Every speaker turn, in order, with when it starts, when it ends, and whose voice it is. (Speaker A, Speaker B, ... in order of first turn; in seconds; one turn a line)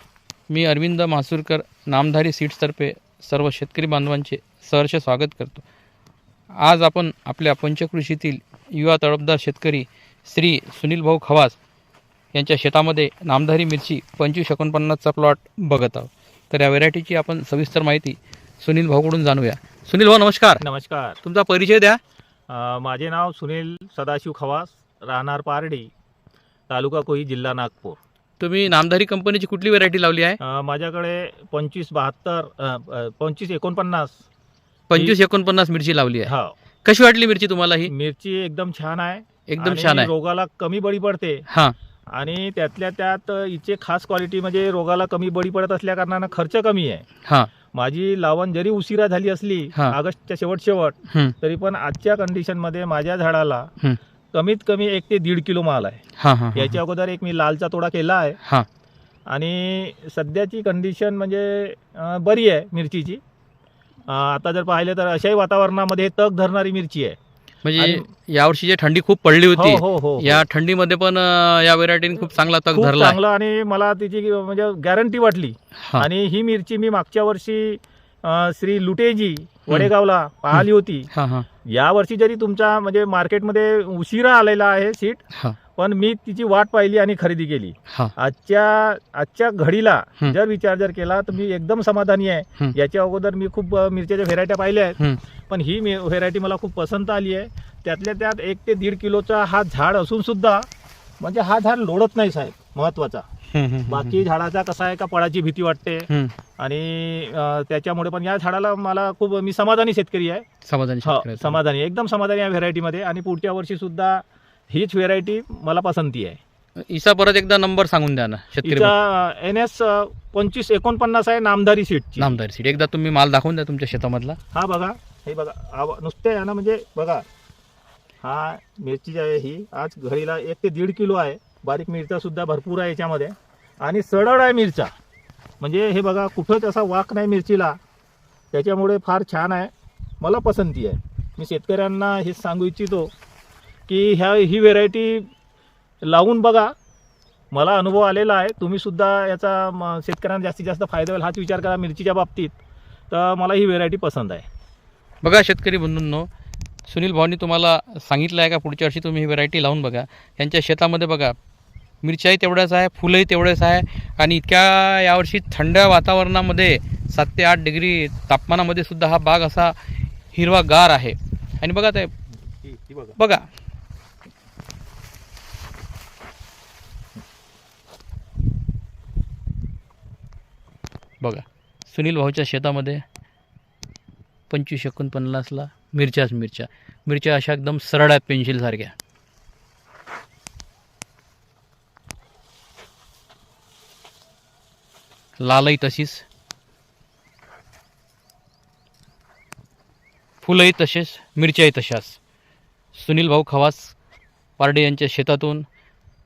Speaker A: 0.5-5.7
Speaker A: 6.6-11.6
Speaker A: 12.3-20.6
Speaker B: 20.6-21.2
Speaker A: 21.2-22.0
Speaker B: 22.5-25.9
Speaker B: 26.7-28.0
Speaker A: 28.4-30.4
Speaker B: 30.4-34.2
Speaker A: 34.9-36.3
Speaker B: 36.3-36.5
Speaker A: 36.8-37.9
Speaker B: 37.9-41.5
Speaker A: 39.5-40.1
Speaker A: 41.5-41.8
Speaker B: 42.1-47.1
Speaker B: 47.7-53.7
Speaker B: 54.3-56.0
Speaker A: 56.2-56.8
Speaker B: 56.5-58.4
Speaker B: 59.3-63.2
Speaker B: 64.1-67.2
Speaker A: 67.6-73.2
Speaker B: 67.8-68.1
Speaker B: 69.5-70.4
Speaker B: 72.7-81.1
Speaker A: 81.1-81.5
Speaker B: 81.7-100.7
Speaker B: 101.2-103.3
Speaker A: 103.5-104.2
Speaker B: 103.9-110.5
Speaker A: 110.7-111.6
Speaker B: 111.0-116.4
Speaker A: 116.9-118.9
Speaker B: 118.6-122.4
Speaker A: 122.2-124.4
Speaker B: 124.5-127.2
Speaker B: 128.2-134.9
Speaker B: 135.6-137.8
Speaker B: 138.5-143.1
Speaker B: 143.9-145.3
Speaker B: 146.0-146.7
Speaker B: 147.5-152.6
Speaker B: 153.1-154.5
Speaker A: 155.2-156.3
Speaker A: 156.9-161.4
Speaker A: 162.0-169.8
Speaker A: 170.3-172.1
Speaker B: 172.5-173.2
Speaker A: 173.2-173.4
Speaker A: 181.2-183.0
Speaker A: 184.5-188.9
Speaker A: 195.4-196.2
Speaker A: 200.4-202.2
Speaker A: 202.9-203.9
Speaker A: 204.6-205.7